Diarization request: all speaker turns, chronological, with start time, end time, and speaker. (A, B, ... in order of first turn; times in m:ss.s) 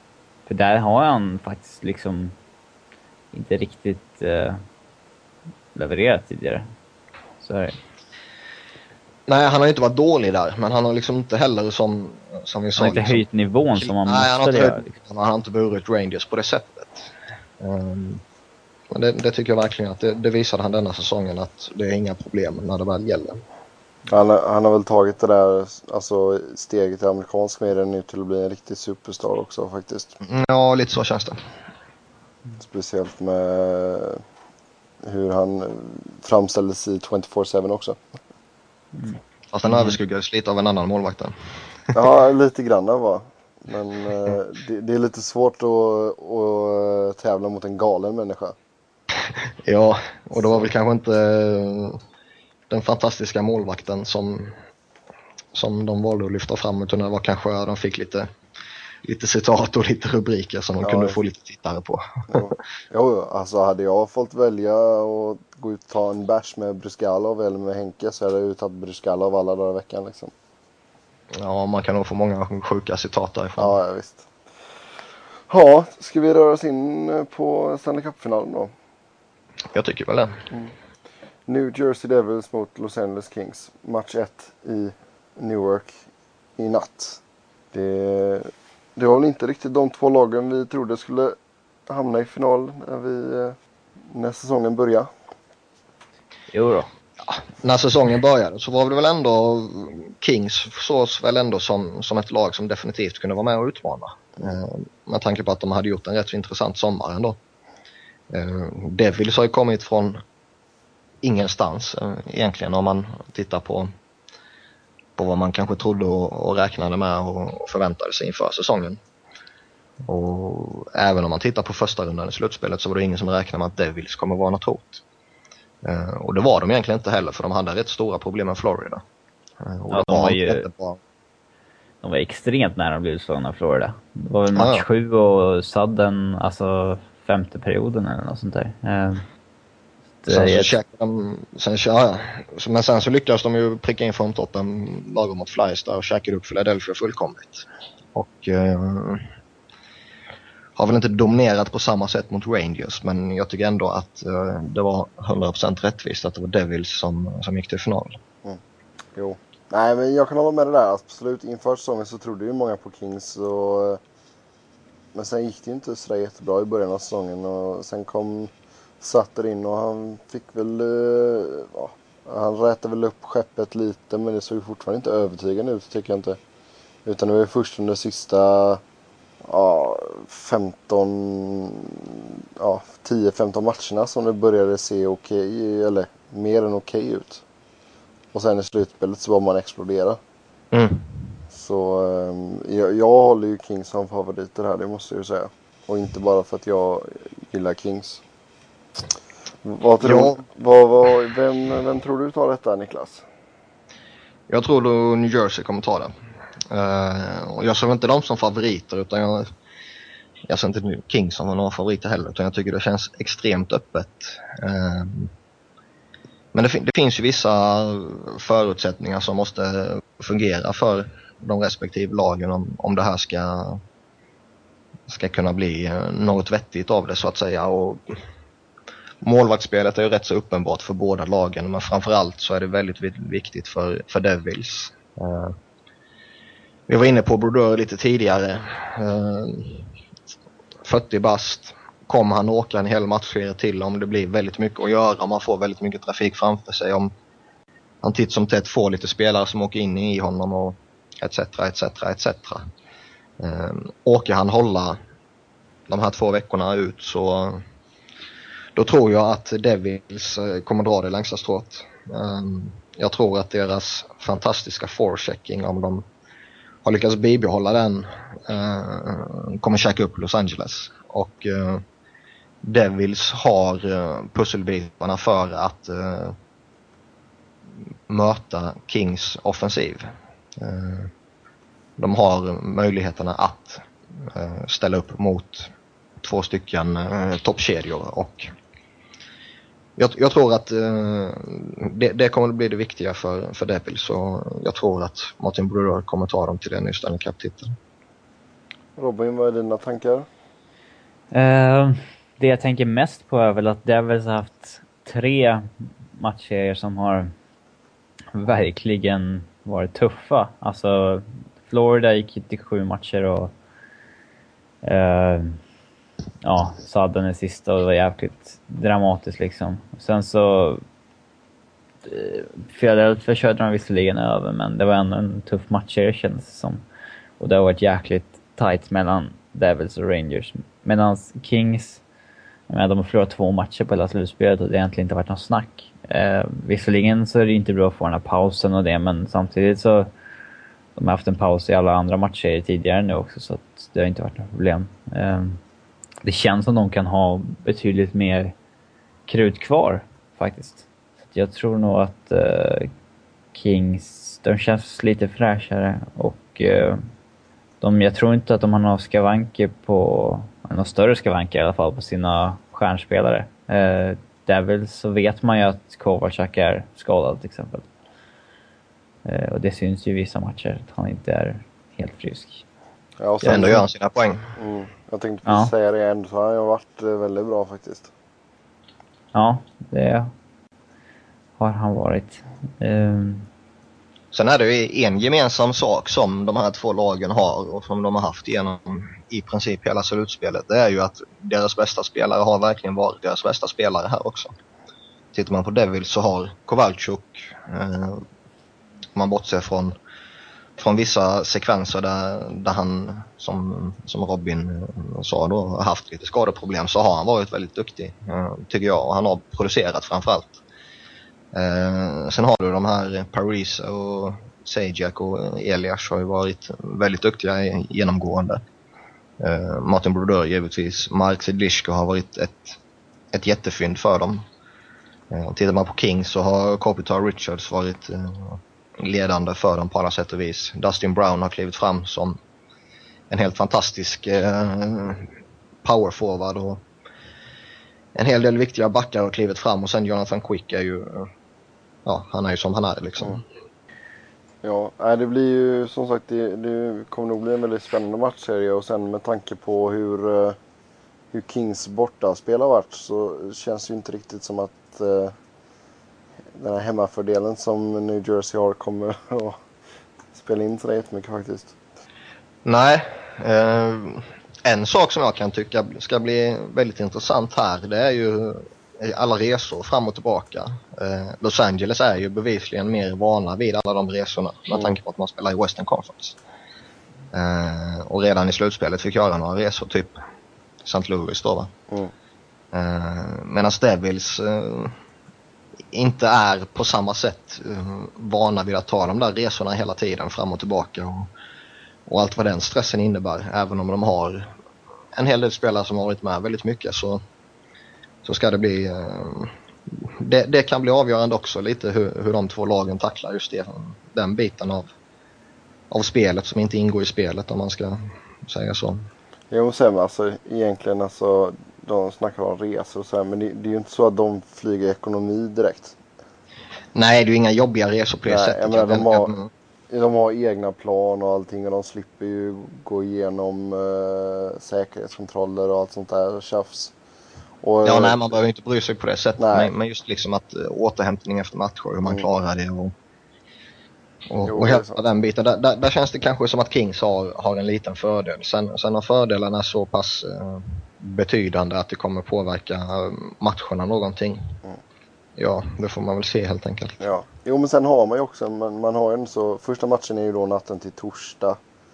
0:00.4-0:02.3 A
0:03.3-0:04.6 A
0:05.7-0:06.7 A
0:07.4-0:07.8 A
0:09.3-0:13.2 B
0:12.8-0:14.9 A
0:13.8-0:18.2 B
0:18.9-0:23.4 B
0:24.1-0:30.2 C
0:30.2-0:31.4 B
0:32.6-0:34.2 C
0:35.0-0:38.0 C
0:39.5-0:41.3 B
0:41.9-0:48.6 C
0:49.5-0:52.0 B
0:52.7-0:54.6 B
0:55.5-0:58.3 B
0:59.0-1:02.4 B
1:00.8-1:01.2 C
1:02.3-1:10.3 C
1:11.4-1:13.7 B
1:13.6-1:14.3 C
1:15.5-1:18.7 C
1:19.7-1:20.4 B
1:21.5-1:25.9 C
1:26.6-1:27.2 C
1:27.7-1:31.4 C
1:31.9-1:33.6 C
1:34.1-1:35.1 C
1:36.5-1:36.9 A
1:37.2-1:47.4 B
1:48.3-1:50.2 B
1:51.2-1:53.9 B
1:55.2-1:59.0 B
2:00.0-2:05.0 B
2:05.8-2:09.0 B
2:09.6-2:11.0 B
2:09.9-2:10.6 A
2:12.0-2:19.2 A
2:14.5-2:14.8 B
2:20.2-2:20.8 A
2:20.3-2:29.3 B
2:30.8-2:38.2 B
2:39.1-2:44.0 C
2:45.1-2:56.4 C
2:57.0-2:58.8 C
2:59.5-3:07.4 C
3:08.3-3:10.2 C
3:10.7-3:11.0 B
3:11.5-3:18.2 C
3:19.6-3:23.2 C
3:20.0-3:20.4 B
3:24.5-3:26.1 B
3:26.7-3:29.5 B
3:30.5-3:35.3 B
3:36.5-3:43.8 B
3:45.1-3:48.2 B
3:49.2-3:55.6 B
3:56.9-3:59.9 B
4:00.8-4:07.1 B
4:08.0-4:12.6 B
4:13.4-4:15.0 B
4:15.9-4:17.6 B
4:18.8-4:26.0 B
4:26.8-4:31.8 B
4:32.6-4:36.4 B
4:38.1-4:41.1 B
4:42.0-4:48.5 B
4:50.0-4:57.7 B
4:59.0-5:00.3 C
5:01.3-5:07.3 A
5:08.3-5:13.5 A
5:14.8-5:15.6 A
5:16.4-5:20.8 A
5:22.0-5:26.8 A
5:27.4-5:32.0 A
5:32.7-5:40.1 A
5:41.0-5:45.6 A
5:46.2-5:48.5 A
5:49.3-5:52.9 A
5:53.5-5:57.0 A
5:57.8-6:07.8 A
6:09.2-6:12.6 A
6:13.2-6:13.8 C
6:13.4-6:14.6 B
6:14.6-6:18.1 C
6:15.4-6:15.7 A
6:19.3-6:20.3 A
6:21.6-6:23.5 A
6:24.3-6:34.5 B
6:35.3-6:38.2 B
6:39.1-6:40.0 B
6:40.8-6:50.6 B
6:51.5-6:58.6 B
6:59.4-7:02.8 B
7:03.3-7:04.4 B
7:05.3-7:12.4 B
7:13.3-7:16.8 B
7:18.1-7:21.3 B
7:22.0-7:23.4 B
7:24.6-7:30.6 C
7:31.3-7:35.3 C
7:36.6-7:39.6 C
7:40.3-7:41.7 C
7:42.6-7:56.4 B
7:57.3-8:00.2 B
8:00.8-8:01.7 B
8:02.7-8:05.0 B
8:05.9-8:11.3 B
8:12.1-8:14.5 B
8:15.1-8:17.2 B
8:18.2-8:24.9 B
8:25.9-8:29.1 B
8:29.5-8:36.0 C
8:36.9-8:39.5 B
8:38.3-8:39.3 C
8:39.9-8:46.9 C
8:47.6-8:48.4 C
8:47.8-8:52.9 B
8:49.4-8:49.7 C
8:54.3-9:04.5 B
8:54.4-8:55.0 C
9:05.4-9:07.0 B
9:07.0-9:11.6 C